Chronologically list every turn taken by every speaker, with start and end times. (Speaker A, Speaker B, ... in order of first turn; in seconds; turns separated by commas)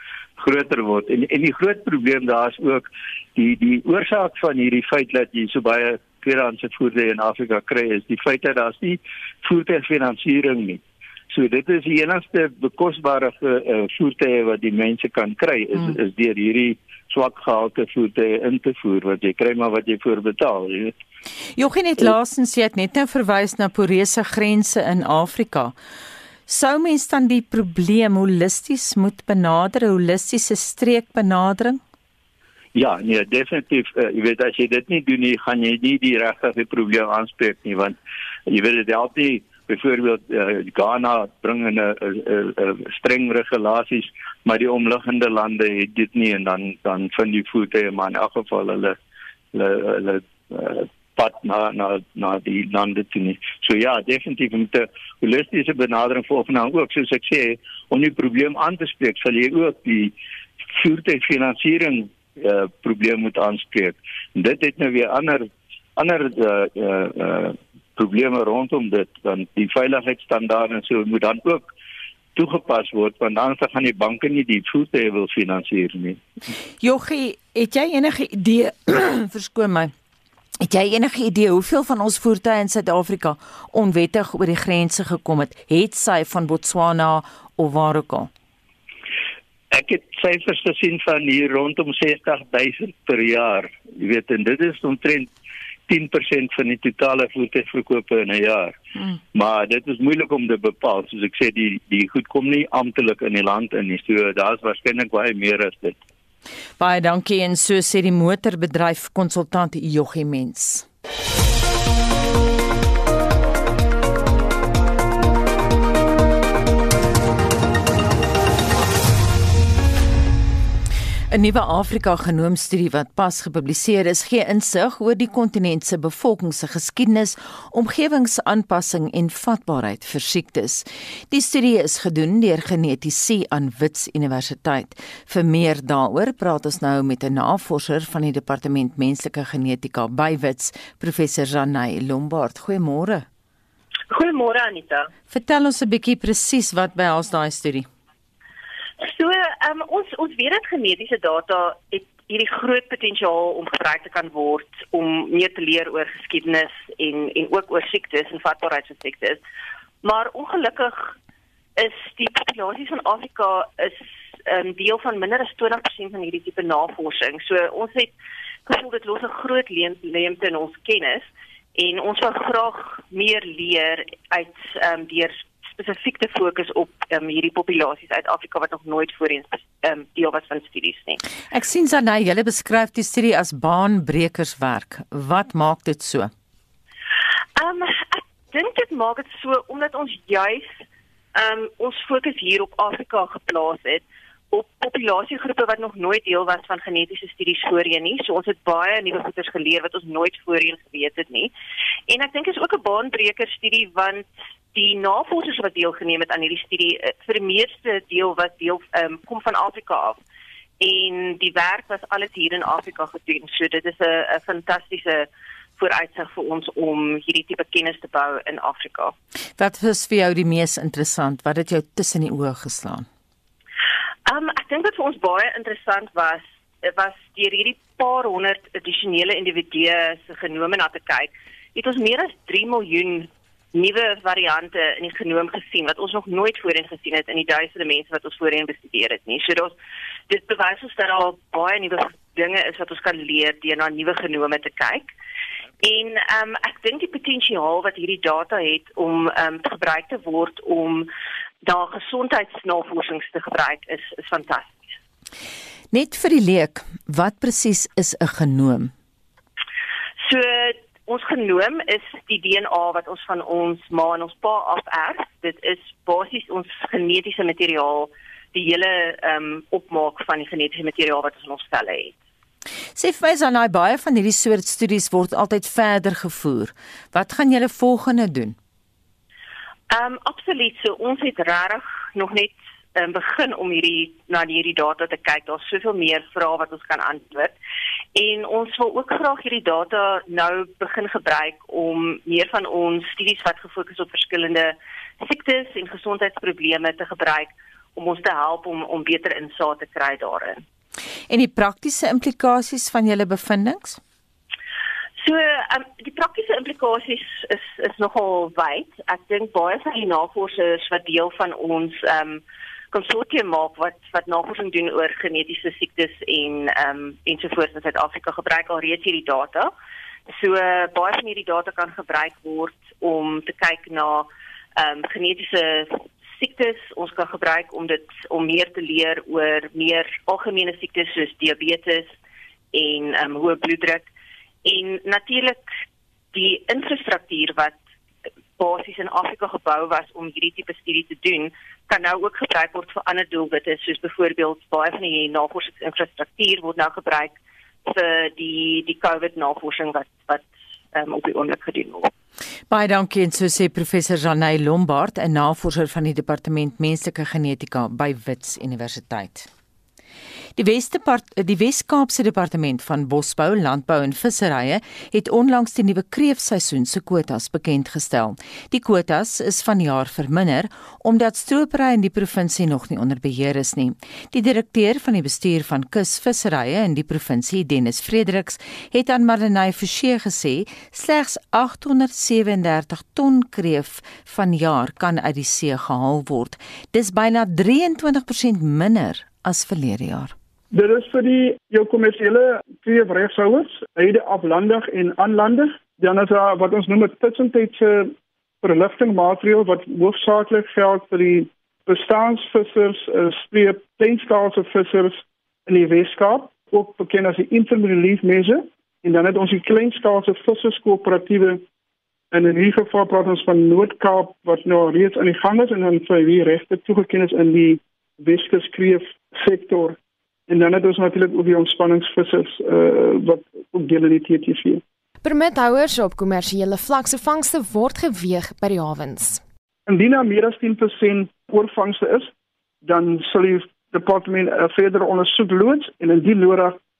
Speaker A: 0.4-20.9, Speaker B: 21.6-25.8, Speaker B: 26.5-31.8, Speaker A: 32.7-38.0, Speaker A: 38.5-49.0, Speaker A: 49.5-60.1, Speaker A: 60.8-71.7, Speaker A: 72.3-76.2, Speaker B: 76.8-79.9, Speaker B: 80.6-88.3, Speaker A: 89.7-95.3, Speaker A: 95.9-98.8, Speaker A: 99.3-106.0, Speaker B: 106.8-110.8, Speaker B: 121.3-143.2, Speaker C: 144.1-145.1, Speaker B: 145.3-147.9, Speaker C: 149.0-159.4, Speaker C: 160.0-161.1, Speaker C: 161.8-168.1, Speaker C: 168.7-181.2, Speaker B: 181.5-186.3, Speaker C: 187.6-190.7, Speaker C: 191.3-201.5, Speaker C: 202.1-210.2, Speaker C: 210.8-219.1, Speaker B: 219.6-223.1, Speaker C: 224.2-239.7, Speaker C: 240.3-245.1, Speaker C: 245.8-251.1, Speaker C: 251.6-254.8, Speaker B: 255.9-258.9, Speaker C: 260.2-272.1, Speaker B: 272.9-278.6, Speaker C: 279.9-287.6, Speaker C: 288.1-300.6, Speaker B: 301.3-304.0, Speaker C: 305.2-319.7, Speaker C: 320.3-332.1, Speaker C: 332.7-334.1, Speaker C: 334.6-335.6, Speaker C: 336.3-337.8, Speaker C: 338.6-352.1, Speaker B: 352.7-359.5, Speaker B: 360.6-390.3, Speaker D: 390.7-411.6, Speaker D: 412.3-424.8, Speaker E: 425.2-429.4, Speaker D: 429.9-432.3, Speaker D: 432.8-436.8